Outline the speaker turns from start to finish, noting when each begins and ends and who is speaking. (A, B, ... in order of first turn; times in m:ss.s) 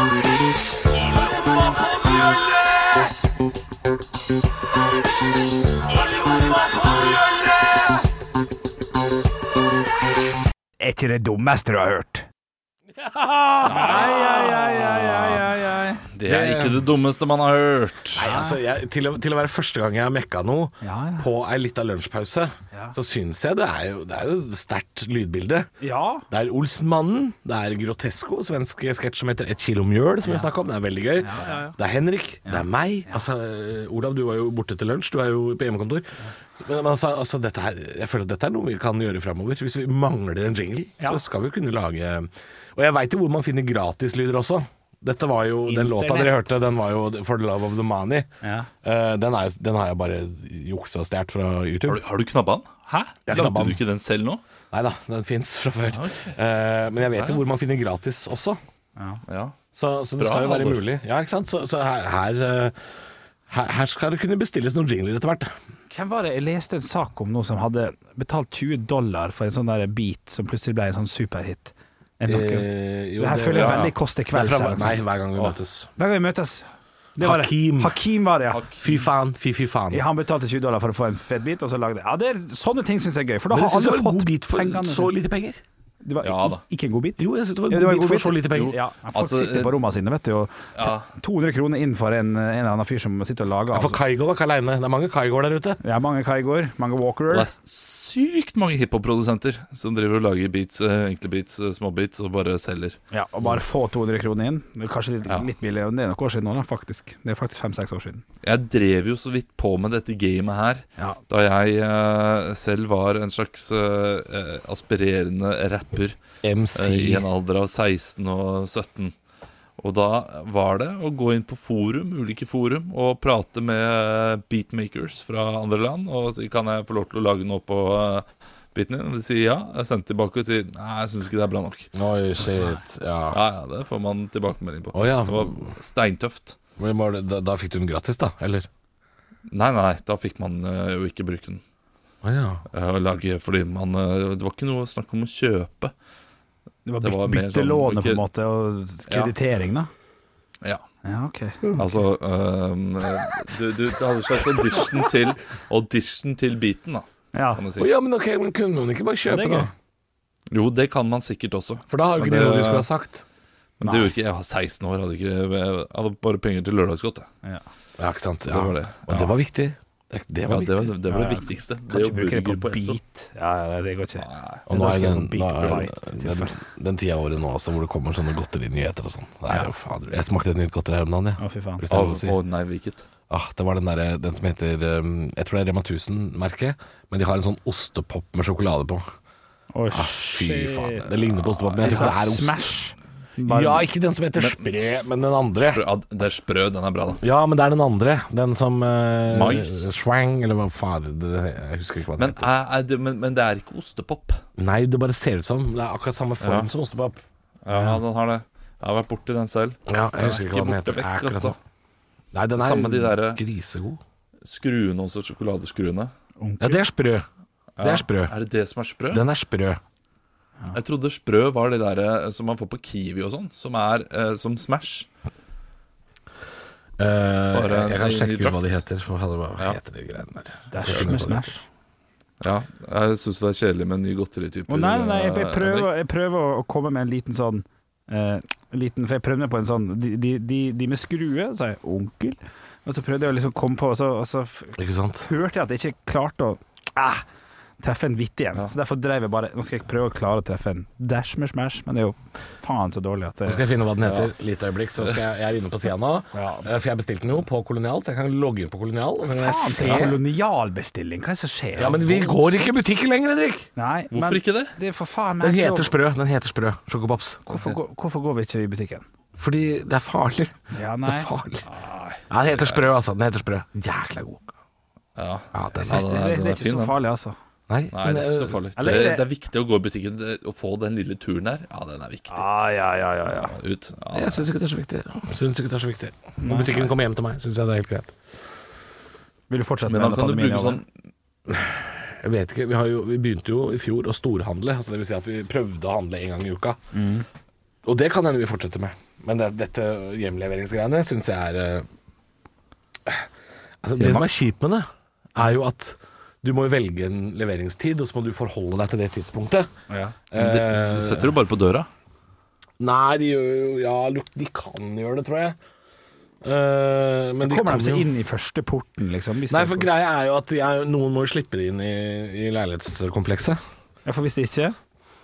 0:00.9-0:03.1 A
0:05.9-0:08.0 A
0:10.8-0:12.2 B
0:13.0-0:15.4 A
0:13.6-0:14.3 C
0:13.6-0:16.0 B
0:16.1-0:18.3 C
0:16.2-0:16.8 A
0:18.1-0:25.7 A
0:18.2-0:18.6 B
0:20.8-0:21.3 B
0:25.8-0:26.3 B
0:26.3-0:48.3 A
0:30.2-0:30.5 B
0:31.2-0:31.8 B
0:32.4-0:33.2 B
0:45.6-0:46.3 B
0:48.4-0:48.7 B
0:48.8-0:52.0 A
0:51.9-0:54.4 C
0:53.3-0:53.8 A
0:54.7-0:58.6 A
0:55.9-0:56.4 C
0:57.1-0:57.4 C
0:59.3-0:59.5 C
0:59.7-1:02.7 A
1:00.2-1:00.8 C
1:03.5-1:05.5 A
1:05.9-1:15.0 B
1:12.2-1:15.9 A
1:13.5-1:13.9 C
1:16.0-1:18.7 B
1:17.2-1:18.0 A
1:18.5-1:18.9 C
1:18.8-1:20.0 A
1:19.9-1:25.1 B
1:23.5-1:25.6 A
1:26.0-1:34.0 B
1:26.2-1:26.6 C
1:27.2-1:28.8 A
1:28.5-1:29.7 C
1:30.8-1:31.1 C
1:33.7-1:35.8 A
1:35.8-1:37.5 B
1:37.3-1:43.0 C
1:43.1-1:48.2 B
1:48.4-1:56.2 C
1:56.4-1:57.2 A
1:56.7-1:59.1 C
1:59.8-2:11.9 C
2:11.9-2:13.4 A
2:13.3-2:16.6 C
2:14.9-2:15.7 A
2:16.8-2:18.7 A
2:19.5-2:21.6 C
2:22.2-2:22.6 A
2:22.7-2:25.9 C
2:26.8-2:29.9 B
2:27.0-2:28.2 C
2:31.0-2:31.8 B
2:31.8-2:37.9 C
2:37.3-2:37.6 B
2:37.8-2:39.7 A
2:39.2-2:39.7 B
2:40.5-2:42.9 C
2:41.9-2:43.2 A
2:43.8-2:47.3 C
2:43.8-2:44.1 B
2:48.0-2:50.9 A
2:48.5-2:49.3 C
2:50.5-2:53.0 C
2:51.1-2:56.5 B
2:54.2-2:54.6 C
2:54.7-3:02.3 A
3:01.4-3:01.8 B
3:01.9-3:03.1 C
3:03.3-3:09.0 A
3:09.7-3:11.1 B
3:09.9-3:12.7 A
3:11.7-3:12.1 C
3:11.8-3:13.9 B
3:13.4-3:15.8 A
3:14.3-3:14.7 C
3:15.6-3:17.2 C
3:17.2-3:22.5 A
3:19.3-3:19.8 C
3:22.2-3:24.4 C
3:24.6-3:27.2 A
3:26.4-3:26.7 C
3:27.6-3:31.6 C
3:27.7-3:28.0 B
3:29.9-3:31.5 A
3:32.3-3:34.0 A
3:32.6-3:33.4 C
3:34.4-3:36.1 C
3:36.4-3:36.9 B
3:36.6-3:37.2 A
3:37.8-3:39.2 C
3:37.8-3:38.3 A
3:39.1-3:39.8 A
3:40.7-3:45.1 C
3:47.0-3:51.6 A
3:47.5-3:48.8 C
3:50.7-3:51.5 B
3:50.8-3:51.3 C
3:52.4-3:55.9 C
3:54.7-4:07.2 B
4:04.8-4:05.2 A
4:07.8-4:13.6 B
4:13.4-4:20.2 A
4:16.3-4:16.7 B
4:19.4-4:22.7 B
4:21.8-4:23.7 A
4:23.8-4:25.9 B
4:24.1-4:24.7 C
4:25.4-4:27.4 A
4:27.5-4:29.0 B
4:29.4-4:31.7 A
4:30.7-4:31.3 B
4:31.6-4:32.9 C
4:32.3-4:34.4 A
4:35.2-4:37.0 C
4:35.5-4:36.0 A
4:35.8-4:37.4 B
4:37.7-4:38.6 A
4:37.9-4:42.4 C
4:38.8-4:39.2 B
4:42.3-4:43.5 B
4:43.5-4:44.5 C
4:44.1-4:48.1 A
4:46.4-4:46.7 B
4:49.5-4:50.8 B
4:49.9-4:50.9 C
4:51.5-4:56.8 A
4:56.9-4:57.2 B
4:57.8-5:01.8 A
5:03.8-5:09.7 A
5:04.0-5:04.3 C
5:09.9-5:10.2 B
5:10.3-5:11.3 A
5:10.3-5:11.9 C
5:12.8-5:15.6 A
5:16.4-5:18.1 A
5:17.4-5:19.9 B
5:19.5-5:23.6 A
5:24.0-5:24.8 B